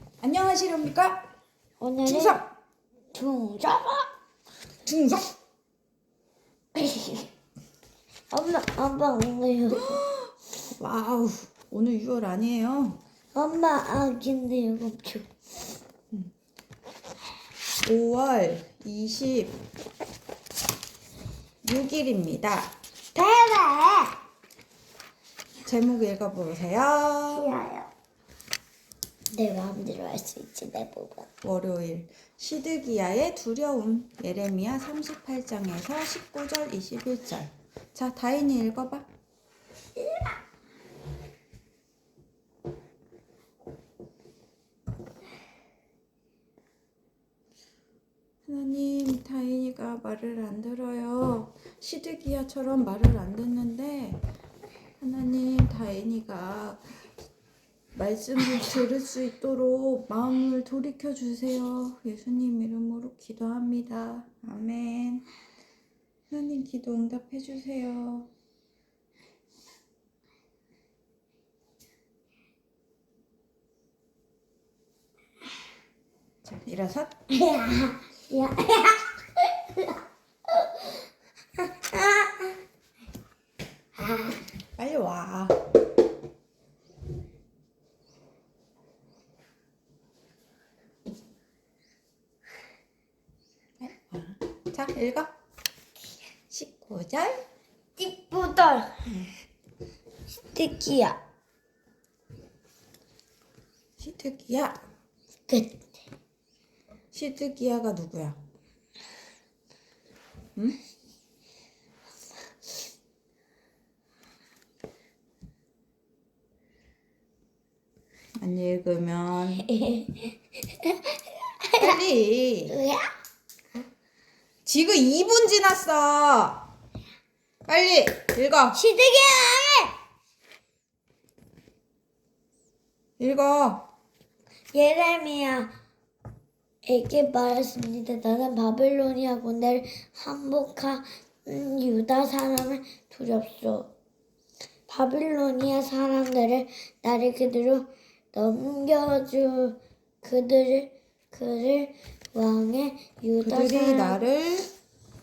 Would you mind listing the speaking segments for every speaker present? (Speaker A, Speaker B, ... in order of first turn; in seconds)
Speaker A: 0.2-1.2, 2.1-2.5, 4.9-5.3, 9.8-13.0, 17.8-19.6, 21.6-22.7, 25.6-27.5, 31.4-39.1, 48.5-54.2, 55.0-56.9, 57.9-65.3, 66.3-68.3, 76.4-77.3, 84.8-85.6, 93.8-95.3, 96.5-97.4, 104.0-104.8, 107.1-108.4, 118.4-119.7, 121.8-122.8, 124.7-126.7, 127.7-128.8, 133.2-133.8, 153.4-154.7
Speaker B: 1.8-2.4, 3.1-4.1, 6.7-7.3, 8.3-10.0, 13.3-15.3, 23.1-24.2, 27.3-27.9, 29.3-31.3, 77.3-81.0, 81.6-82.5, 84.0-84.4, 98.0-99.1, 100.4-101.2, 105.5-105.9, 119.7-122.0, 122.7-123.1, 128.7-129.9, 134.7-135.7, 136.8-143.9, 144.9-154.2